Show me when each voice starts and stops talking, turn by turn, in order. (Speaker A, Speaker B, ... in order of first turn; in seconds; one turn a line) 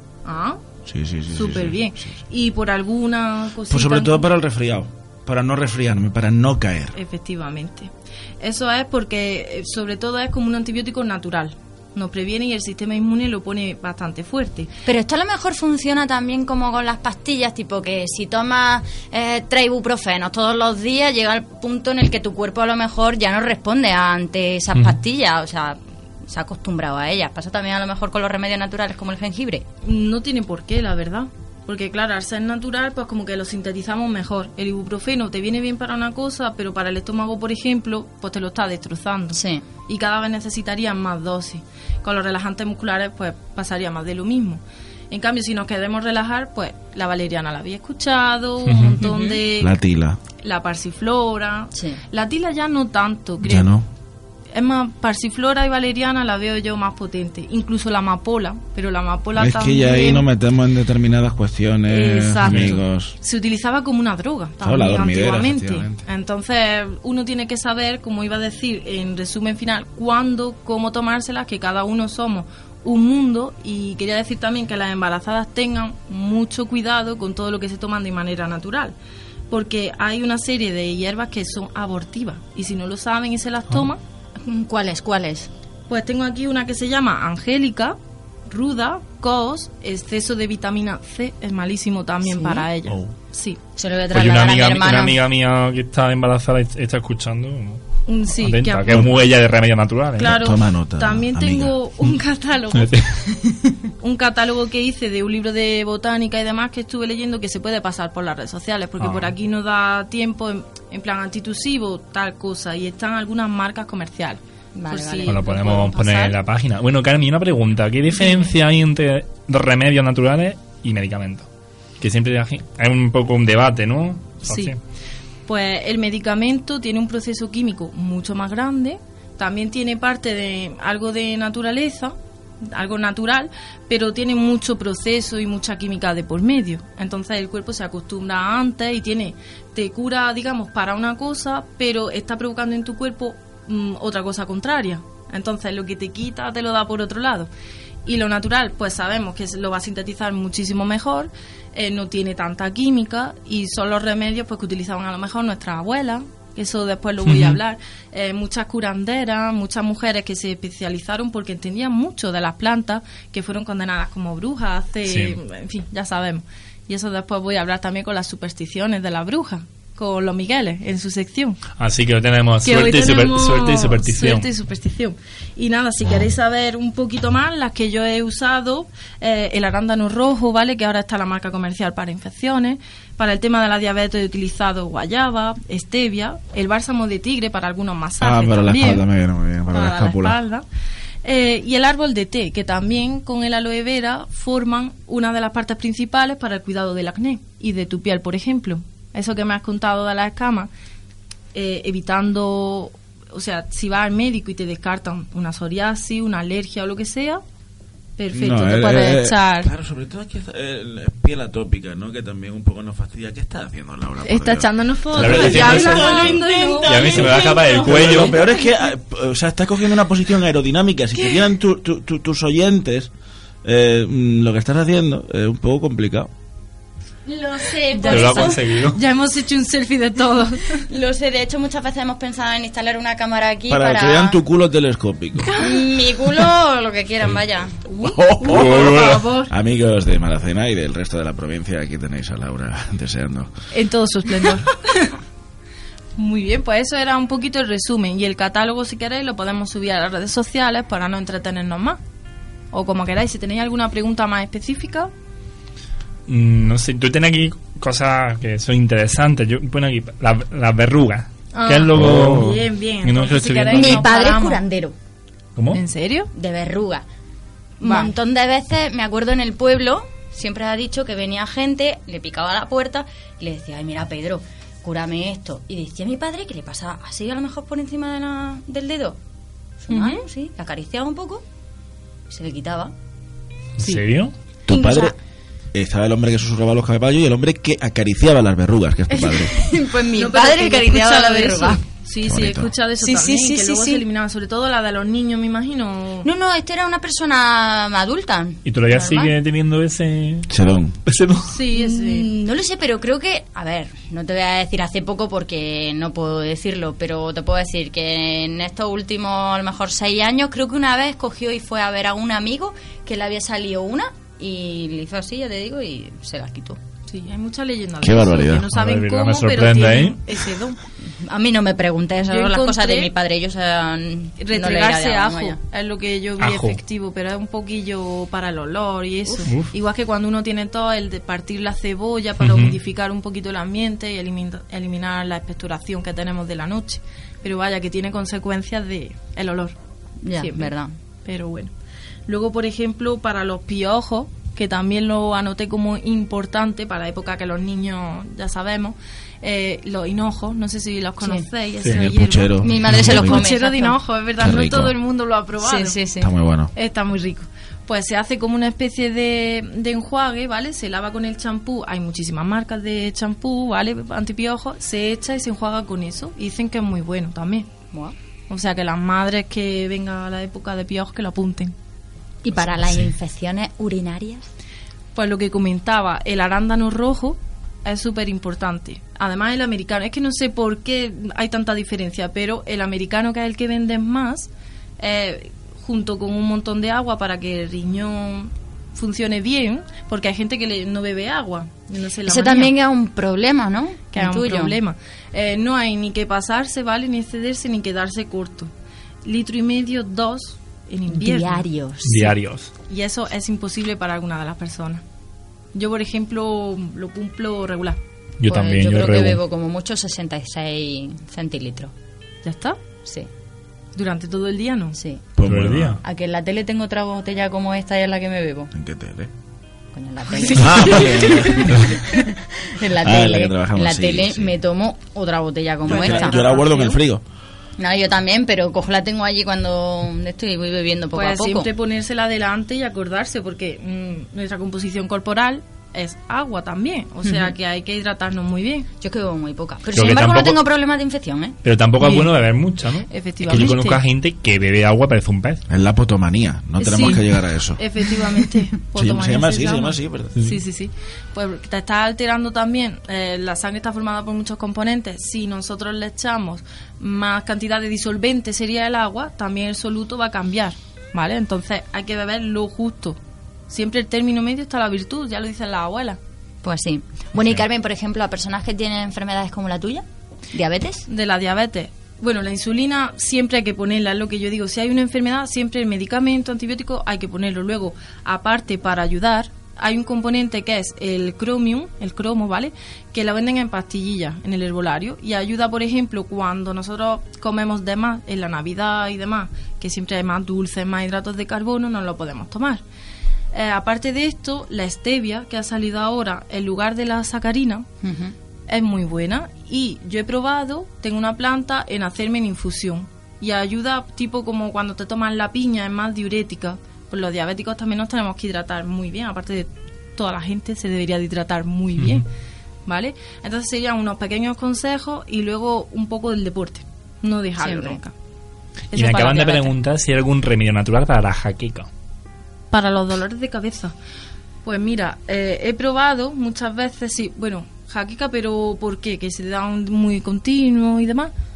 Speaker A: 0.2-0.6
Speaker B: 0.8-2.2
Speaker A: 1.3-4.2
Speaker B: 3.7-6.9
Speaker A: 6.9-14.7
Speaker C: 14.8-29.6
Speaker D: 24.7-25.0
Speaker A: 29.8-49.8
Speaker C: 39.3-39.7
Speaker D: 48.6-49.0
Speaker C: 49.0-49.4
Speaker B: 49.6-50.2
Speaker A: 50.4-53.7
Speaker C: 51.7-52.0
Speaker B: 53.4-53.9
Speaker A: 54.5-60.2
Speaker B: 59.4-63.2
Speaker A: 61.9-78.9
Speaker D: 62.4-62.7
Speaker B: 64.6-66.0
Speaker A: 79.5-84.0
Speaker C: 84.4-85.5
Speaker A: 85.9-88.0
Speaker A: 88.5-93.6
Speaker C: 92.2-92.7
Speaker B: 92.8-93.1
Speaker C: 93.8-95.2
Speaker D: 94.1-100.3
Speaker A: 98.0-99.0
Speaker B: 98.8-99.1
Speaker A: 100.2-103.0
Speaker B: 100.2-101.8
Speaker D: 102.7-103.0
Speaker A: 104.0-116.4
Speaker D: 109.0-109.3
Speaker C: 114.7-115.4
Speaker D: 115.2-121.5
Speaker A: 118.2-118.5
Speaker D: 122.0-124.8
Speaker A: 124.4-124.7
Speaker A: 125.5-147.5
Speaker A: 148.0-171.6
Speaker D: 157.2-157.6
Speaker D: 165.1-165.4
Speaker D: 171.8-174.5
Speaker A: 172.6-189.0
Speaker B: 188.2-190.4
Speaker A: 189.7-190.6
Speaker A: 191.2-200.7
Speaker A: 201.5-207.4
Speaker A: 208.2-209.7
Speaker B: 208.3-216.4
Speaker A: 214.2-217.8
Speaker D: 215.2-218.4
Speaker B: 217.0-223.1
Speaker A: 221.2-221.4
Speaker B: 223.6-226.3
Speaker C: 227.2-228.6
Speaker A: 227.9-230.8
Speaker D: 228.1-229.0
Speaker C: 230.9-234.4
Speaker B: 233.7-235.5
Speaker A: 235.4-235.8
Speaker C: 235.6-237.8
Speaker A: 237.9-239.5
Speaker B: 238.0-243.5
Speaker D: 238.5-239.2
Speaker A: 243.7-245.1
Speaker A: 246.2-252.0
Speaker A: 252.7-255.1
Speaker D: 256.3-264.1
Speaker A: 261.5-264.6
Speaker B: 262.0-262.4
Speaker C: 263.7-264.9
Speaker D: 265.6-265.8
Speaker A: 265.7-266.3
Speaker C: 266.3-267.0
Speaker C: 267.8-279.2
Speaker A: 267.8-268.1
Speaker C: 279.8-281.4
Speaker A: 279.9-280.2
Speaker C: 282.3-282.9
Speaker D: 283.8-284.3
Speaker B: 284.7-285.1
Speaker C: 284.7-285.1
Speaker B: 285.7-289.5
Speaker C: 289.1-291.8
Speaker A: 289.7-296.3
Speaker B: 292.2-292.7
Speaker C: 293.0-294.0
Speaker C: 296.2-299.3
Speaker D: 298.6-300.5
Speaker B: 300.5-300.9
Speaker D: 301.1-301.5
Speaker A: 301.5-302.3
Speaker C: 301.7-316.8
Speaker A: 317.1-320.8
Speaker B: 318.0-318.7
Speaker D: 318.7-320.2
Speaker C: 321.1-325.6
Speaker A: 322.2-323.1
Speaker A: 324.4-339.8
Speaker D: 326.4-326.8
Speaker D: 329.4-329.7
Speaker D: 332.4-332.8
Speaker C: 340.2-340.9
Speaker A: 340.3-341.7
Speaker A: 342.3-356.0
Speaker C: 351.2-351.5
Speaker B: 351.8-353.5
Speaker C: 352.6-354.0
Speaker B: 354.4-355.0
Speaker C: 355.6-356.3
Speaker B: 356.2-356.7
Speaker A: 356.8-367.7
Speaker A: 368.5-371.7
Speaker C: 372.4-374.4
Speaker D: 372.8-373.1
Speaker A: 375.1-392.8
Speaker C: 392.2-394.8
Speaker A: 394.1-398.7
Speaker A: 399.2-401.7
Speaker C: 401.1-402.3
Speaker D: 402.0-402.7
Speaker A: 402.9-405.0
Speaker A: 405.7-408.0
Speaker D: 408.4-409.4
Speaker C: 408.4-411.9
Speaker A: 412.4-412.8
Speaker C: 413.0-413.3
Speaker A: 413.9-415.0
Speaker C: 414.9-415.2
Speaker B: 415.4-416.0
Speaker D: 415.4-416.0
Speaker C: 416.0-418.7
Speaker B: 418.7-419.3
Speaker C: 419.9-421.3
Speaker A: 420.3-421.5
Speaker B: 420.5-421.9
Speaker C: 422.3-426.9
Speaker B: 423.0-424.6
Speaker B: 425.8-427.2
Speaker A: 425.9-426.7
Speaker C: 427.8-431.7
Speaker A: 431.1-438.9
Speaker C: 437.2-437.5
Speaker C: 439.0-441.6
Speaker D: 439.9-440.6
Speaker D: 441.6-445.6
Speaker A: 442.0-442.3
Speaker A: 443.1-444.0
Speaker B: 445.7-447.8
Speaker A: 446.8-463.2
Speaker B: 448.9-450.4
Speaker A: 463.7-466.2
Speaker C: 466.6-471.0
Speaker A: 471.1-492.8
Speaker A: 493.5-497.9
Speaker C: 498.0-498.3
Speaker A: 498.7-512.2
Speaker D: 512.0-512.2
Speaker A: 512.9-518.1
Speaker C: 517.6-518.0
Speaker A: 518.9-519.7
Speaker D: 518.9-521.9
Speaker A: 522.7-523.9
Speaker A: 524.6-531.3